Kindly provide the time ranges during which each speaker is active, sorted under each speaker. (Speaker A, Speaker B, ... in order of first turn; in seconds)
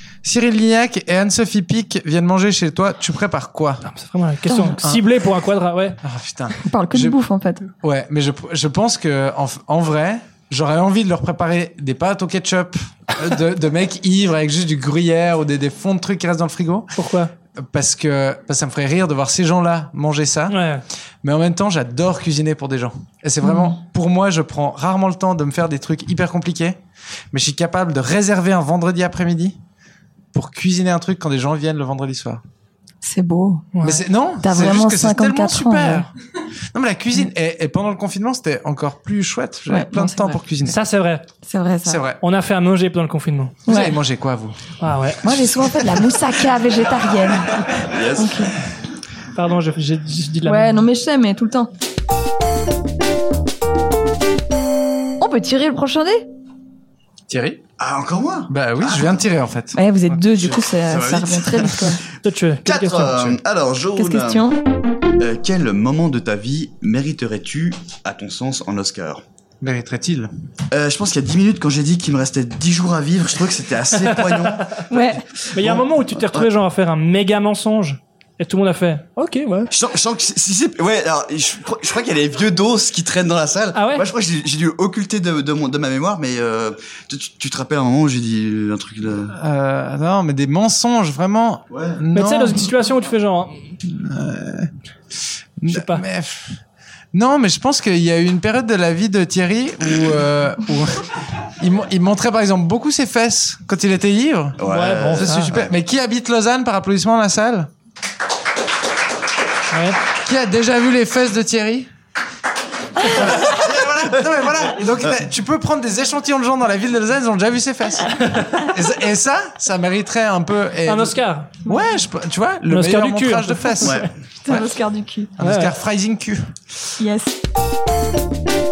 Speaker A: 0.2-3.8, 6.0-7.2, 7.8-16.9, 17.6-20.6, 21.2-26.8, 27.3-29.6, 30.3-32.4, 33.8-36.1, 36.7-40.8, 41.9-42.2, 43.7-44.6, 57.3-57.6, 58.5-60.2, 69.6-70.3, 89.4-92.7, 93.8-94.7, 95.6-96.6, 97.1-101.0, 101.6-104.6, 105.2-107.7, 110.2-111.9, 113.0-124.7, 125.4-126.5
Speaker B: 3.8-6.0, 16.9-17.3, 20.5-20.8, 33.7-34.0, 40.6-41.2, 42.2-43.6, 44.8-45.2, 49.4-50.9, 62.2-63.2, 74.0-74.4, 75.5-79.7, 83.8-84.1, 92.1-93.6, 95.7-96.0, 104.7-105.5, 109.7-110.0, 118.3-118.6, 120.9-121.5, 122.7-124.1, 125.4-125.7
Speaker C: 4.5-4.8, 6.6-7.6, 23.4-23.8, 33.0-33.7, 34.4-36.1, 39.7-40.4, 41.5-42.0, 43.7-44.0, 45.2-48.5, 50.5-51.7, 55.2-56.2, 59.8-62.0, 64.0-64.6, 74.9-75.2, 124.5-125.3, 127.0-127.3
Speaker D: 47.8-48.5, 57.8-59.2, 60.4-62.0, 62.6-64.5, 65.2-69.2, 70.7-76.5, 79.7-89.3, 91.7-92.0, 104.6-105.7, 123.8-124.1